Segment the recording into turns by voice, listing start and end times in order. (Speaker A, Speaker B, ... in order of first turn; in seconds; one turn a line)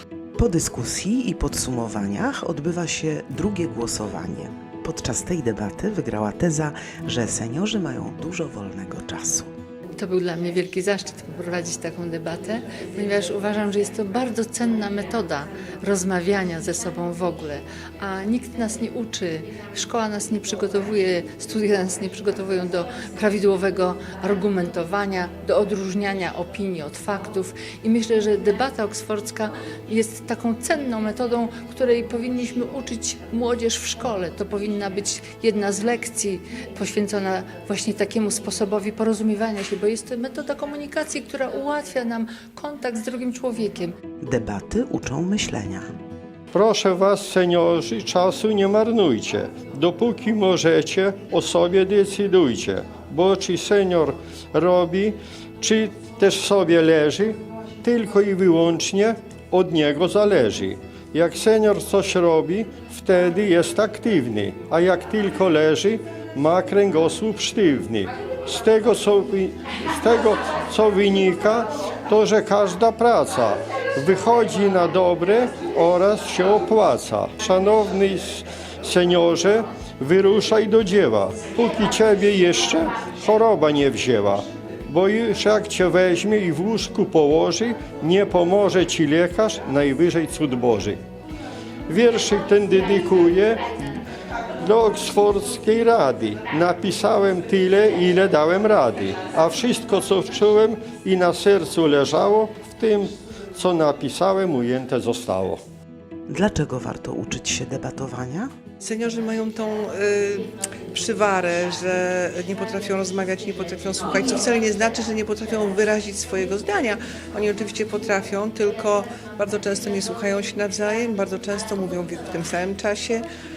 Speaker A: 0.4-9.5
Speaker B: 9.9-43.9
Speaker A: 44.2-45.8
Speaker C: 46.5-91.0
Speaker C: 91.9-93.6
Speaker C: 94.6-105.6
Speaker A: 106.3-108.5
Speaker D: 108.8-123.2